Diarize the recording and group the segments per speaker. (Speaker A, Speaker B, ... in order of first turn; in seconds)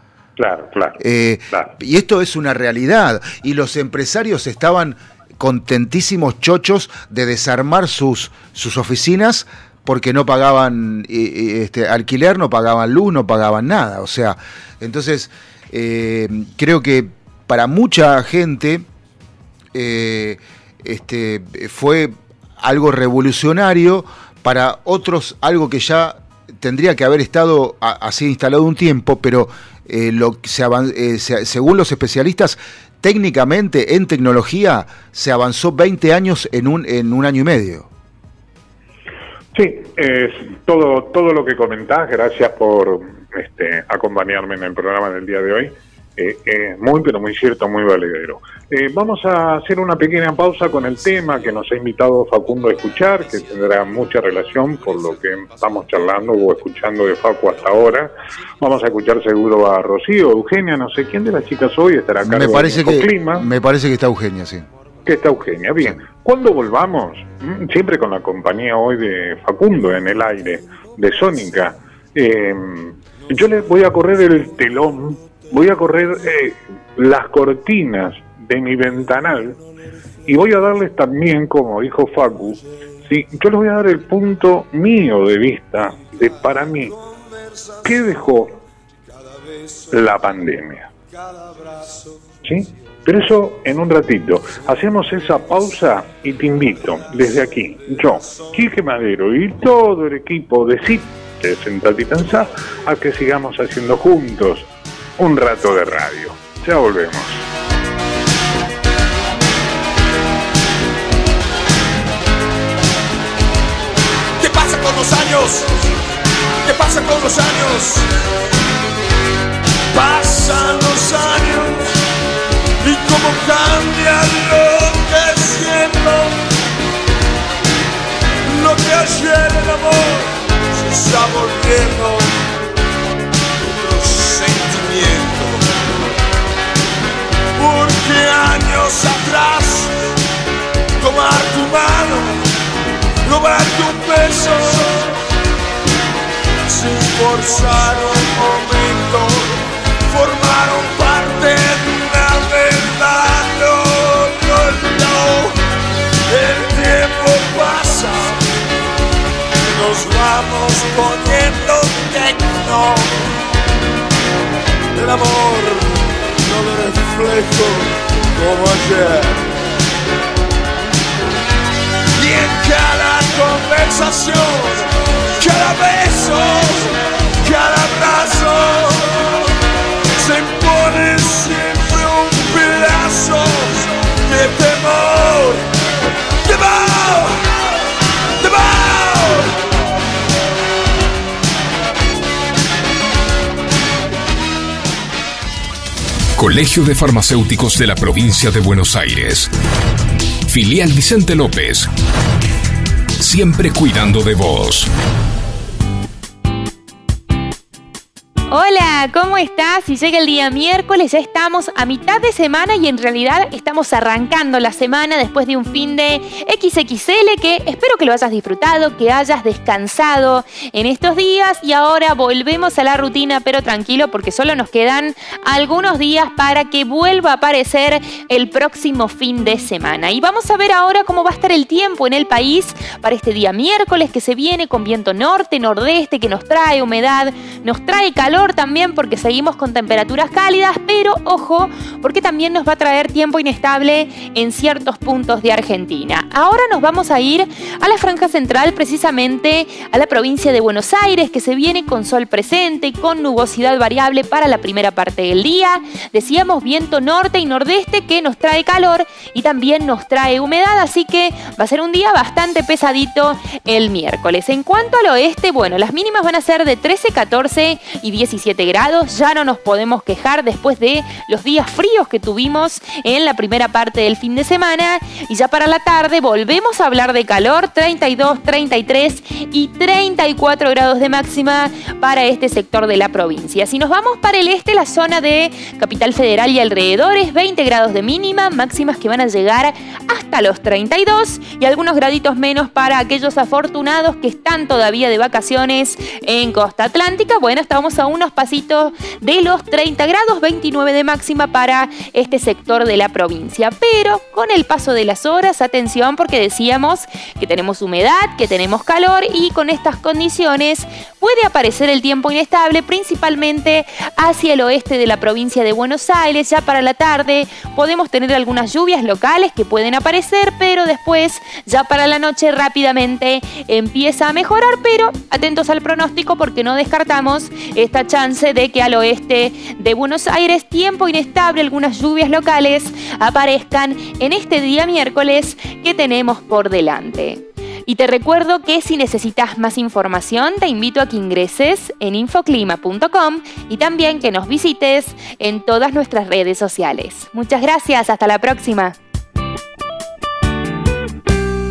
Speaker A: 0.4-1.0, 39.5-63.5, 65.0-79.6, 80.3-87.0, 87.8-88.6, 89.9-90.9, 92.4-107.5
Speaker B: 1.0-18.9, 19.7-37.9, 62.2-64.7
Speaker C: 73.2-74.5, 86.2-88.3, 89.2-90.2, 91.1-92.2, 94.8-95.7, 96.4-98.7, 114.4-115.8, 116.6-118.1, 119.9-122.0, 122.8-126.5, 128.5-132.4, 133.6-135.7, 137.6-140.0, 141.0-142.5, 143.2-145.2, 146.7-155.6, 156.3-158.5, 159.6-163.3, 164.9-169.5, 172.2-179.5, 180.1-185.7, 186.4-187.4, 188.4-189.6
Speaker D: 196.4-199.5, 200.5-201.9, 203.2-204.9
Speaker E: 208.5-349.0